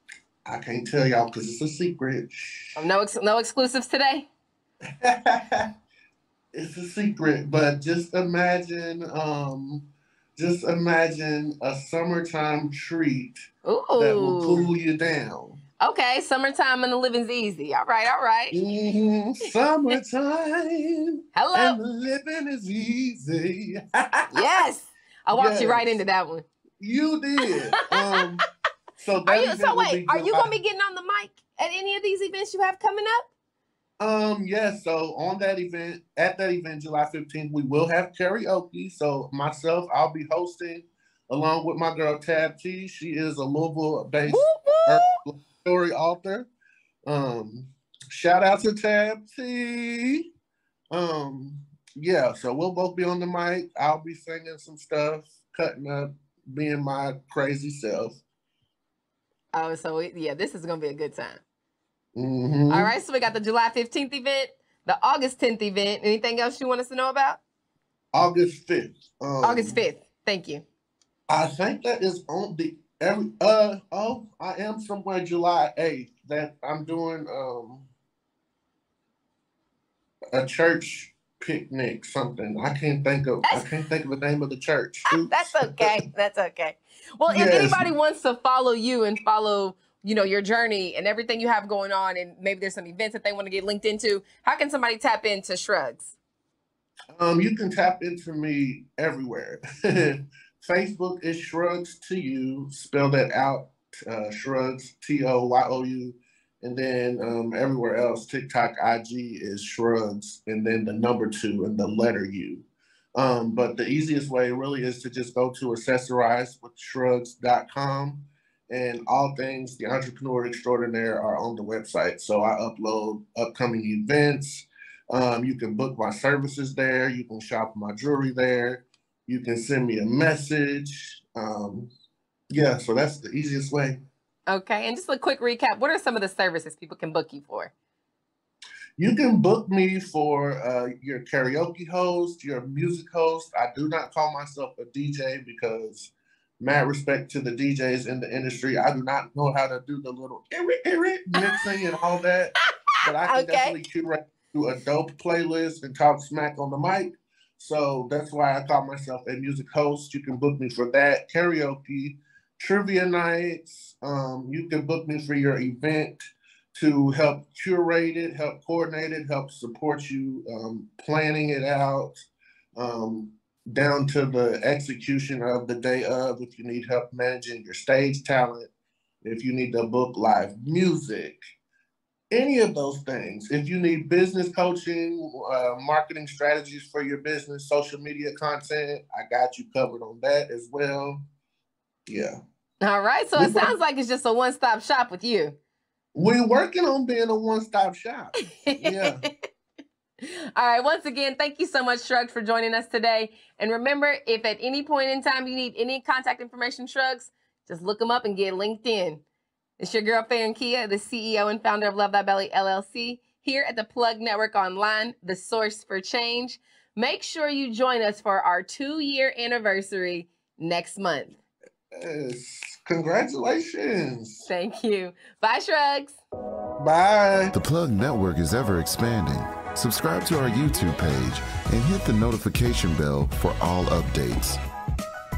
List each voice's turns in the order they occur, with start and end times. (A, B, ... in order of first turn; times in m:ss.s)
0:00.5-0:02.8 A
0:02.8-0:04.3 B
0:04.9-0:05.7 A
0:06.5-0:13.5 A
0:13.6-0:14.7 B
0:14.0-0:15.6 A
0:15.8-0:18.6 B
0:18.5-0:24.3 A
0:21.4-0:21.8 B
0:24.3-0:26.4 B
0:25.3-0:26.0 A
0:26.8-0:28.4 A
0:27.9-0:28.2 B
0:29.0-0:30.6 A
0:29.2-0:33.3 B
0:34.0-0:46.5 A
0:44.3-0:45.2 B
0:47.1-0:50.3 A
0:50.9-0:58.2 A
0:59.5-1:01.4 B
1:02.2-1:02.9 A
1:02.7-1:07.4 B
1:08.1-1:09.8 A
1:09.4-1:10.6 B
1:11.3-1:17.9 A
1:20.3-1:26.0 A
1:25.1-1:36.2 B
1:27.3-1:27.9 A
1:37.1-1:52.6 A
1:53.2-2:11.9 A
2:12.5-2:14.0 A
2:14.5-2:17.7 B
2:19.0-2:52.3 A
2:33.2-2:33.8 B
2:52.8-2:58.7 A
2:59.2-3:01.4 A
3:02.3-3:11.2 A
3:12.1-3:12.4 A
3:12.8-3:15.6 B
3:13.4-3:13.8 A
3:16.2-3:19.2 A
3:18.6-3:19.5 B
3:20.2-3:29.2 B
3:29.8-3:41.4 B
3:41.9-3:44.5 A
3:44.5-3:46.2 B
3:46.8-3:47.5 A
3:47.5-3:54.6 C